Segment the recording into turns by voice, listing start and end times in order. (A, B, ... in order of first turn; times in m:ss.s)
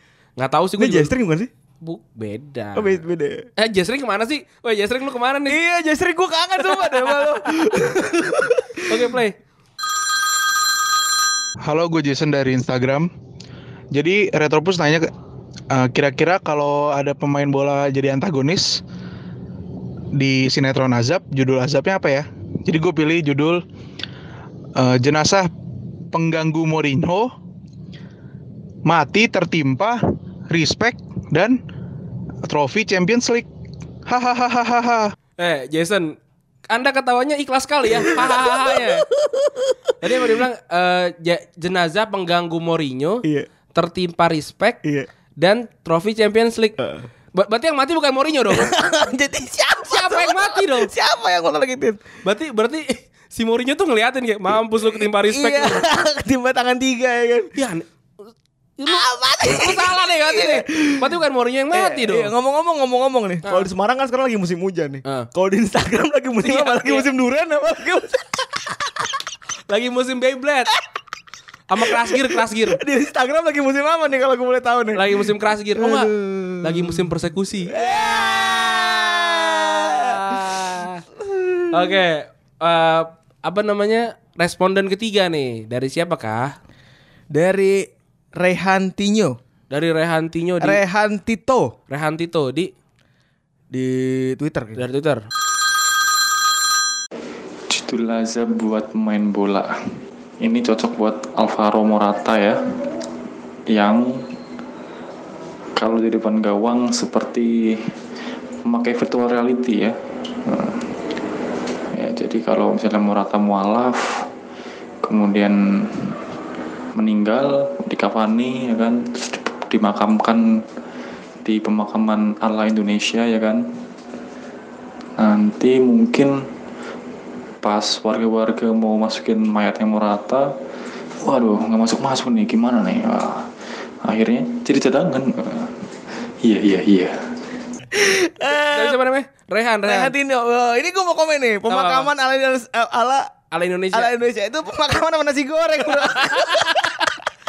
0:00.4-0:01.1 A
0:00.8-0:01.5 B
0:01.8-0:03.0 A
0:02.8-0:03.4 B
0:03.6-0:05.6 A
0:05.5-0:09.1 B
0:06.6-0:07.5 A
0:08.8-0:09.4 A
0:11.6-0:13.1 C
0:13.9-0:15.1 C
0:15.7-0:18.8 C
0:20.1-0:23.6 C
0:24.8-0:25.5 C
0:26.1-0:27.3 C
0:28.8-0:30.0 C
0:30.5-0:31.6 C
0:32.4-0:33.5 C
0:34.0-0:35.1 C
0:35.4-0:39.0 A
0:37.9-0:39.9 B
0:40.0-0:44.8 A
0:45.4-0:46.8 A
0:46.8-0:47.0 B
0:47.3-0:48.7 A
0:48.5-0:52.0 B
0:49.9-0:50.9 A
0:52.2-0:55.8 A
0:55.0-0:57.5 B
0:57.5-0:57.8 A
0:58.8-1:02.3 A
0:58.8-1:01.1 B
1:01.7-1:09.1 B
1:06.4-1:07.0 A
1:09.7-1:10.7 A
1:11.7-1:12.8 A
1:11.8-1:17.1 B
1:14.9-1:21.0 A
1:17.6-1:22.0 B
1:21.7-1:26.5 A
1:27.3-1:29.4 B
1:29.7-1:30.8 A
1:30.6-1:31.7 B
1:31.9-1:32.7 A
1:33.7-1:34.8 B
1:34.8-1:35.2 A
1:37.7-1:39.7 D
1:40.4-1:42.6 D
1:43.7-1:44.2 D
1:45.8-1:47.9 D
1:48.6-1:51.0 D
1:51.9-1:54.2 D
1:55.0-1:56.2 D
1:56.9-2:00.4 D
2:01.4-2:03.6 D
2:05.2-2:06.4 D
2:07.6-2:10.5 D
2:11.2-2:13.5 D
2:14.0-2:15.8 D
2:16.4-2:17.2 D
2:17.9-2:19.0 B
2:18.4-2:20.1 A
2:19.8-2:23.3 B
2:21.7-2:22.1 A
2:23.5-2:24.1 A
2:23.9-2:27.1 B
2:25.9-2:27.1 A